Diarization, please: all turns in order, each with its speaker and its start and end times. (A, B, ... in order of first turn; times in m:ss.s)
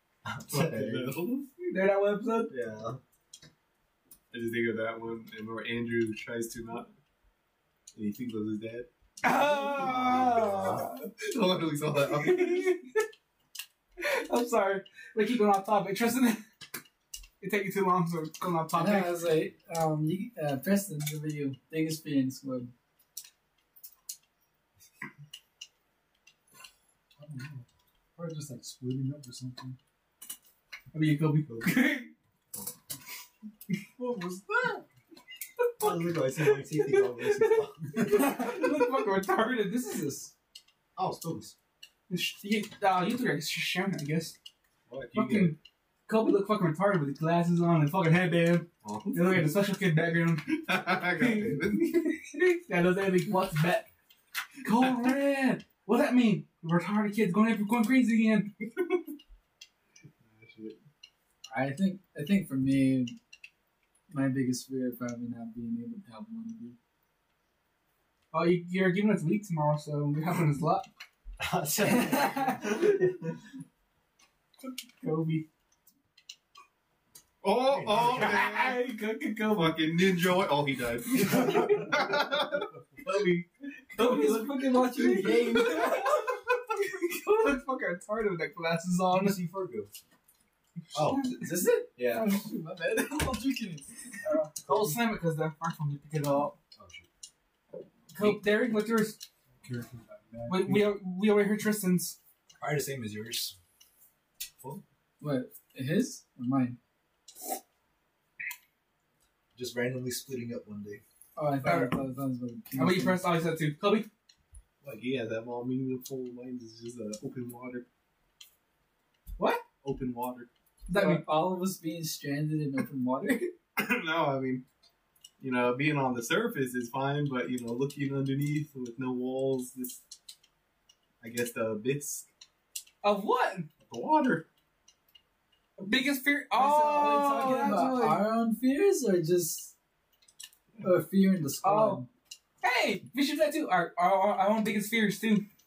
0:00.2-0:01.2 A
0:00.5-0:01.5 B
0:01.6-0:02.5 C
0:02.5-0:03.0 A
0:04.3-0:06.9 B
0:07.9-0:08.9 B
0:09.2-0:11.0 C
0:09.3-0:10.9 A
0:11.2-0:12.7 B
0:12.1-0:13.0 C
0:14.0-0:16.4 C
0:17.4-0:19.2 C
0:18.7-0:22.7 D
0:27.2-0:29.8 E
0:30.9-0:32.1 C
0:31.4-0:31.7 A
0:34.0-0:34.9 E
0:35.8-0:40.3 C
0:35.8-0:38.2 A
0:41.0-0:41.5 A
0:42.1-0:44.3 C
0:44.9-0:45.5 B
0:45.1-0:45.6 C
0:46.1-0:50.6 C
0:48.8-0:49.5 B
0:50.5-0:52.1 B
0:51.1-0:53.9 C
0:54.6-0:58.5 C
1:00.2-1:00.8 B
1:01.5-1:03.2 D
1:04.1-1:06.8 D
1:08.3-1:10.8 C
1:11.4-1:13.2 A
1:12.1-1:12.5 D
1:12.6-1:13.0 C
1:15.0-1:15.4 C
1:17.4-1:18.8 B
1:17.6-1:18.5 A
1:18.0-1:19.8 C
1:19.4-1:23.5 B
1:21.2-1:21.9 C
1:23.9-1:26.3 C
1:24.0-1:26.2 D
1:26.8-1:29.4 C
1:29.1-1:29.9 A
1:30.9-1:31.2 A
1:31.0-1:31.5 C
1:31.4-1:34.4 D
1:32.0-1:32.3 A
1:34.3-1:36.5 C
1:34.6-1:34.9 A
1:36.8-1:37.1 A
1:38.1-1:39.2 C
1:39.6-1:40.9 E
1:40.5-1:42.2 C
1:42.6-1:43.6 A
1:45.2-1:46.8 D
1:49.5-1:51.0 A
1:51.4-1:53.2 D
1:51.6-1:51.9 C
1:52.7-1:54.1 C
1:54.8-1:57.8 B
1:59.8-2:00.5 B
2:00.9-2:01.2 C
2:00.9-2:03.5 D
2:03.8-2:04.6 B
2:05.4-2:10.0 B
2:11.2-2:12.3 B
2:13.0-2:13.6 C
2:13.8-2:14.4 B
2:15.8-2:18.2 C
2:16.5-2:19.7 D
2:20.8-2:22.1 D
2:21.6-2:22.0 C
2:22.6-2:25.4 C